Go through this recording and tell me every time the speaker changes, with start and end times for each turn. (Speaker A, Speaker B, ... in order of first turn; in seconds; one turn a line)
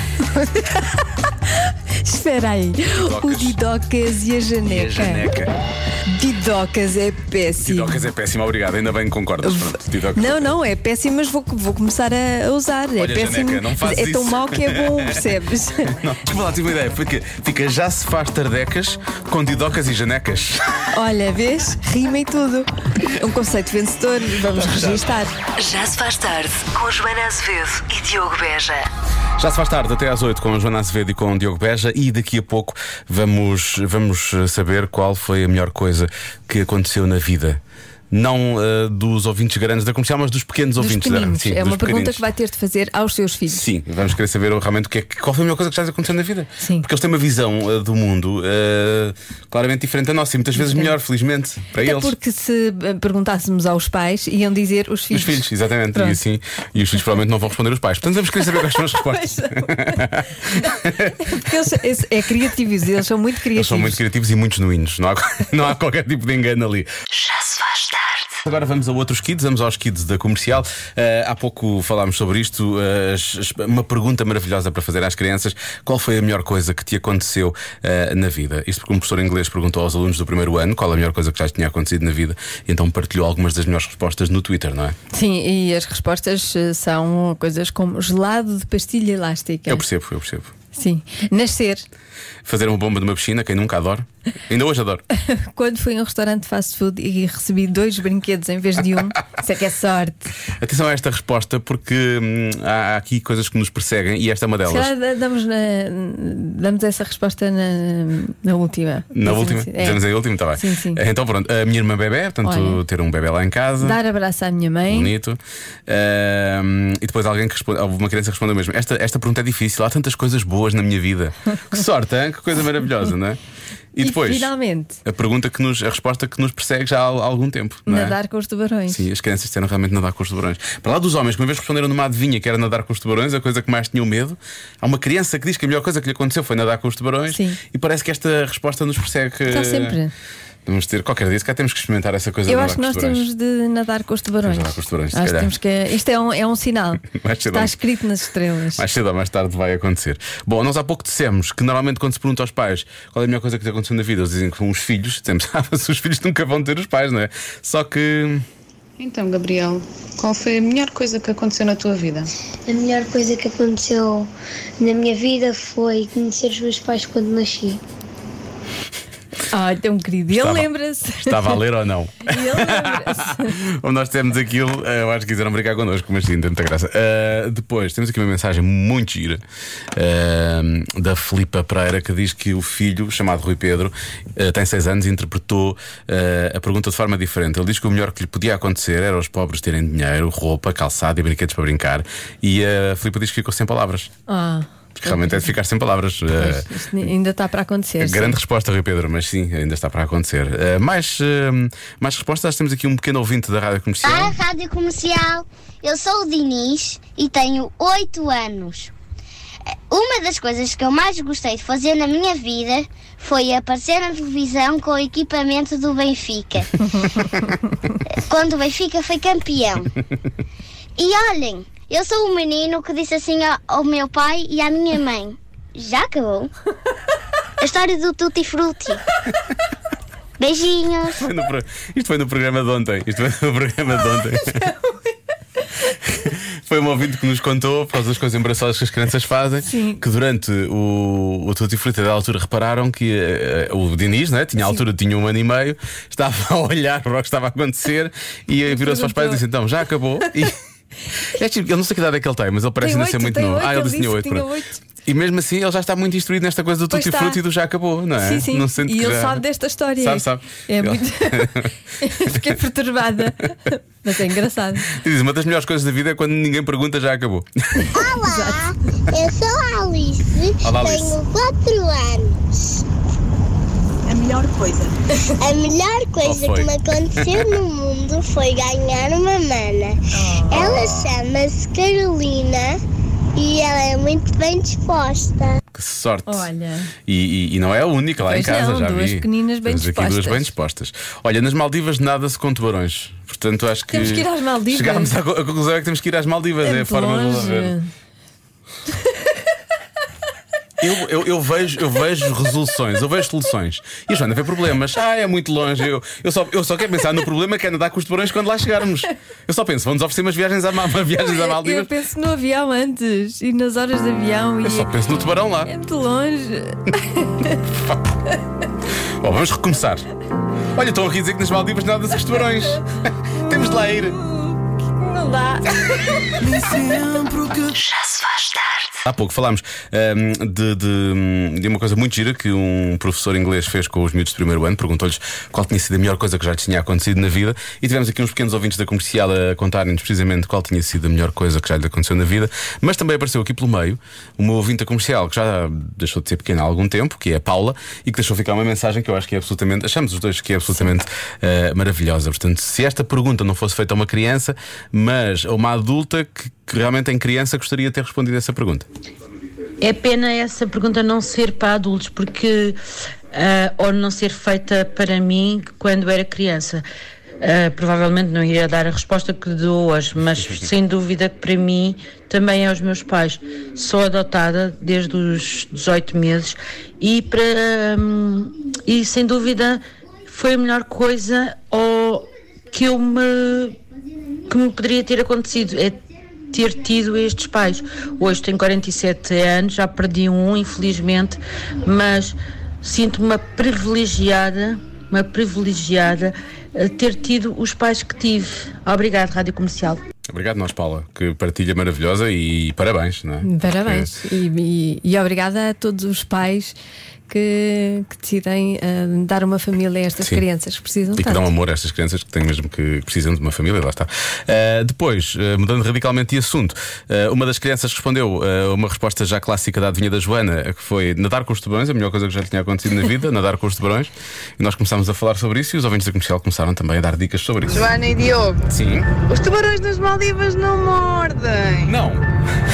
Speaker A: 0.4-0.8
Speaker A: 2.0-5.3
Speaker B: 2.9-3.6
Speaker B: 4.6-5.5
Speaker A: 6.1-8.0
Speaker B: 7.6-10.5
Speaker A: 9.4-15.9
Speaker B: 13.0-15.3
Speaker B: 15.8-20.8
Speaker A: 20.9-25.3
Speaker B: 24.5-25.1
Speaker C: 25.6-28.9
Speaker B: 29.4-37.6
Speaker B: 38.1-42.2
Speaker A: 40.8-43.7
Speaker B: 43.5-52.1
Speaker A: 46.6-46.9
Speaker A: 50.6-50.9
Speaker A: 51.8-56.2
Speaker B: 55.1-61.3
Speaker A: 58.9-64.0
Speaker B: 63.5-66.9
Speaker C: 67.1-68.3
Speaker B: 68.4-85.0
Speaker A: 85.1-89.8
Speaker B: 89.7-90.5
Speaker A: 90.7-91.8
Speaker B: 92.5-95.0
Speaker A: 95.2-100.3
Speaker B: 100.6-104.9
Speaker A: 104.7-110.0
Speaker B: 109.1-114.0
Speaker A: 110.5-111.0
Speaker A: 112.4-112.8
Speaker A: 113.8-115.1
Speaker B: 114.9-123.4
Speaker B: 123.9-124.5
Speaker A: 124.0-125.0
Speaker B: 125.0-128.2
Speaker A: 127.9-129.0
Speaker B: 128.9-140.0
Speaker A: 137.3-137.6
Speaker A: 139.5-140.1
Speaker B: 140.7-143.2
Speaker A: 142.5-148.8
Speaker B: 144.4-145.5
Speaker B: 147.0-147.8
Speaker B: 148.8-158.5
Speaker D: 159.0-162.3
Speaker E: 162.7-167.8
Speaker A: 169.4-171.6
Speaker B: 170.3-170.7
Speaker B: 171.2-179.4
Speaker A: 172.3-173.6
Speaker B: 179.9-194.1
Speaker A: 194.3-195.5
Speaker B: 195.0-196.7
Speaker A: 196.4-198.4
Speaker B: 198.0-204.4
Speaker F: 204.0-208.9
Speaker F: 209.9-217.5
Speaker F: 218.1-220.0
Speaker F: 221.0-226.5
Speaker F: 227.6-229.0
Speaker F: 230.4-231.3
Speaker B: 231.2-234.7
Speaker B: 236.0-250.6
Speaker A: 239.7-240.0
Speaker A: 248.7-249.4
Speaker B: 251.2-254.5
Speaker A: 252.8-254.8
Speaker B: 255.1-259.4
Speaker A: 256.9-257.4
Speaker A: 258.2-264.9
Speaker B: 260.0-261.7
Speaker B: 262.3-262.5
Speaker B: 264.8-267.9
Speaker A: 267.8-268.7
Speaker F: 267.9-272.8
Speaker B: 270.6-271.2
Speaker D: 274.1-274.9
Speaker F: 275.4-282.8
Speaker B: 276.2-277.5
Speaker A: 280.1-280.7
Speaker B: 280.5-281.1
Speaker F: 283.4-285.6
Speaker B: 285.7-286.5
Speaker A: 286.3-286.9
Speaker B: 287.1-297.7
Speaker A: 288.2-290.5
Speaker A: 293.9-295.1
Speaker A: 296.6-297.9
Speaker B: 300.8-311.9
Speaker A: 311.2-314.9
Speaker B: 314.6-315.7
Speaker A: 315.7-317.6
Speaker B: 319.2-320.1
Speaker B: 320.7-324.2
Speaker A: 324.3-325.6
Speaker C: 327.7-329.0
Speaker B: 329.0-358.9
Speaker G: 359.8-362.8
Speaker G: 363.3-366.9
Speaker G: 367.4-383.8
Speaker G: 384.5-400.0
Speaker B: 400.3-404.1
Speaker A: 403.4-406.8
Speaker A: 407.3-411.4
Speaker B: 411.2-428.0
Speaker H: 427.7-428.7
Speaker B: 428.7-429.1
Speaker H: 429.2-432.0
Speaker B: 431.9-432.3